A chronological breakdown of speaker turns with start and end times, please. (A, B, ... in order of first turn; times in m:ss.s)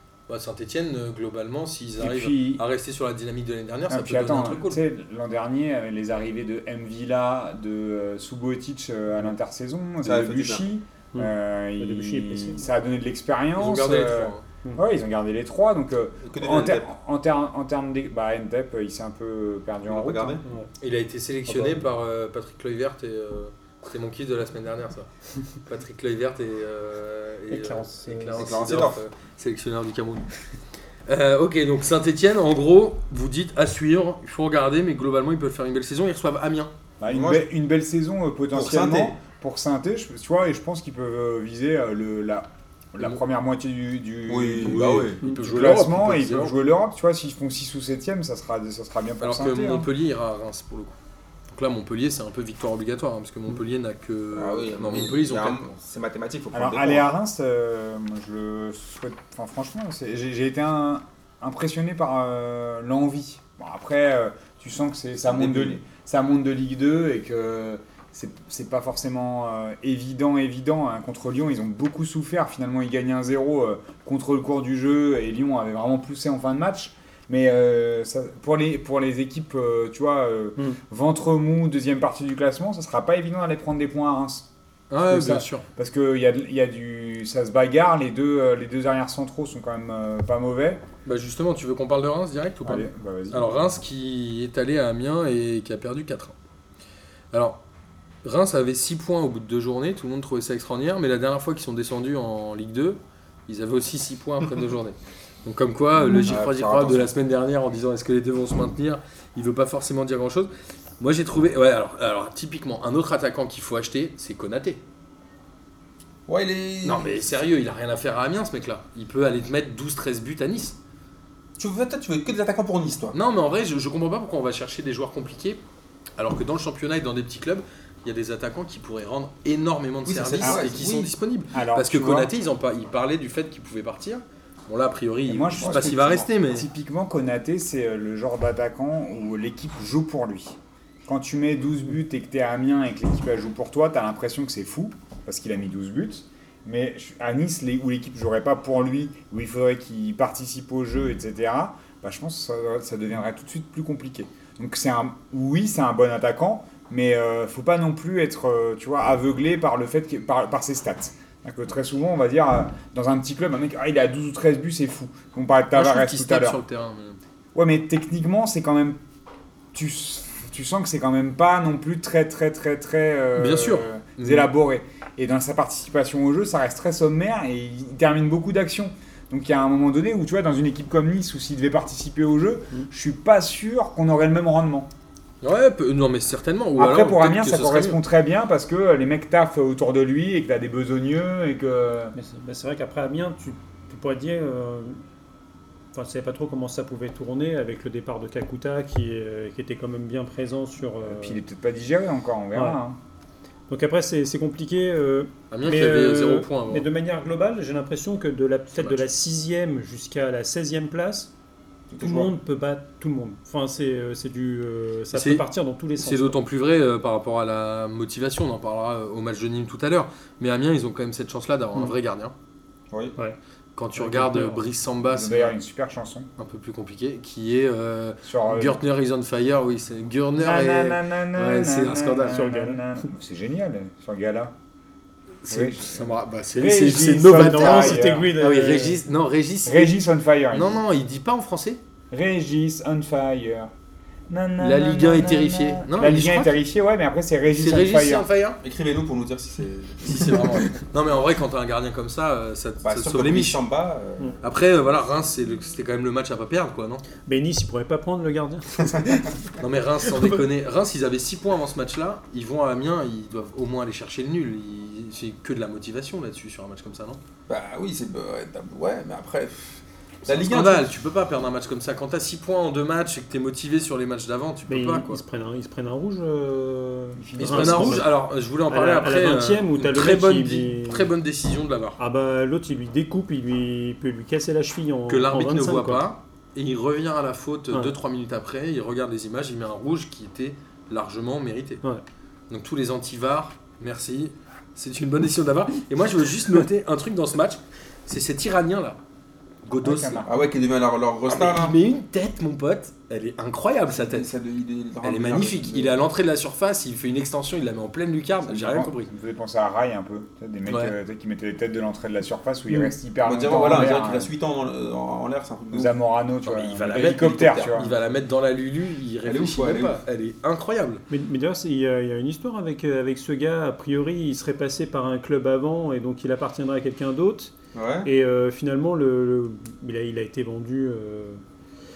0:00.3-0:04.8 A
0:02.0-0:02.6 B
0:03.9-0:20.4 B
0:10.0-0:10.6 C
0:11.1-0:12.7 D
0:13.6-0:14.4 A
0:16.2-0:16.8 C
0:19.8-0:20.4 C
0:20.4-0:20.7 D
0:20.8-0:30.3 A
0:27.5-0:28.6 D
0:28.3-0:29.0 C
0:31.0-0:36.7 A
0:37.0-0:49.9 B
0:37.1-0:37.4 C
0:38.5-0:39.2 C
0:44.3-0:45.2 C
0:44.6-0:46.5 A
0:49.2-0:51.0 A
0:51.5-0:55.8 A
0:54.3-0:57.0 C
0:56.5-1:24.5 B
1:05.3-1:05.8 C
1:24.9-1:25.6 A
1:25.0-1:30.8 B
1:31.0-1:36.3 A
1:32.6-1:33.5 B
1:37.3-1:37.6 A
1:38.2-1:54.8 A
1:46.1-1:47.1 C
1:56.3-1:57.1 C
1:56.8-2:00.8 A
2:01.6-2:03.2 C
2:03.1-2:05.6 A
2:06.2-2:16.7 A
2:10.0-2:11.1 C
2:10.4-2:10.7 B
2:11.5-2:12.3 B
2:15.3-2:46.6 B
2:15.5-2:16.3 C
2:45.7-2:47.2 A
2:47.5-2:49.0 B
2:49.7-3:04.9 B
2:53.4-2:54.5 A
3:05.4-3:08.0 A
3:06.8-3:12.1 B
3:12.2-3:15.0 D
3:15.9-3:21.4 D
3:21.0-3:23.0 B
3:22.5-3:22.8 D
3:23.7-3:31.3 D
3:25.5-3:26.8 A
3:28.7-3:29.0 A
3:31.9-3:32.3 C
3:32.0-3:36.4 D
3:35.1-3:35.4 A
3:36.0-3:42.3 A
3:42.9-3:43.2 C
3:43.8-3:45.6 A
3:44.0-3:44.6 D
3:45.0-3:46.3 B
3:46.4-3:52.5 A
3:48.2-3:48.8 B
3:50.4-3:54.5 B
3:52.3-3:53.0 D
3:55.4-4:00.0 A
3:55.5-3:58.3 B
3:57.2-3:59.0 D
3:59.6-4:00.8 B
4:00.5-4:01.8 A
4:02.1-4:03.7 B
4:04.3-4:08.3 B
4:04.6-4:06.5 A
4:07.5-4:08.6 A
4:08.6-4:10.7 C
4:10.0-4:13.6 A
4:12.8-4:14.3 C
4:14.4-4:17.0 A
4:17.3-4:19.3 D
4:19.6-4:27.2 A
4:27.5-4:30.9 C
4:30.3-4:35.2 A
4:34.7-4:38.1 D
4:37.2-4:38.0 B
4:37.4-4:42.0 A
4:38.7-4:41.1 D
4:42.0-4:46.0 D
4:45.1-4:51.8 A
4:52.5-4:59.0 A
4:59.6-5:00.2 A
4:59.8-5:00.4 B
5:00.2-5:01.8 C
5:01.3-5:04.3 A
5:03.9-5:06.0 C
5:05.0-5:09.1 A
5:08.6-5:14.3 B
5:10.7-5:10.9 A
5:12.7-5:12.9 D
5:13.2-5:15.9 C
5:15.7-5:17.9 B
5:16.4-5:21.0 A
5:17.0-5:17.7 C
5:19.2-5:20.0 C
5:21.1-5:27.5 D
5:27.7-5:28.1 C
5:28.0-5:31.4 D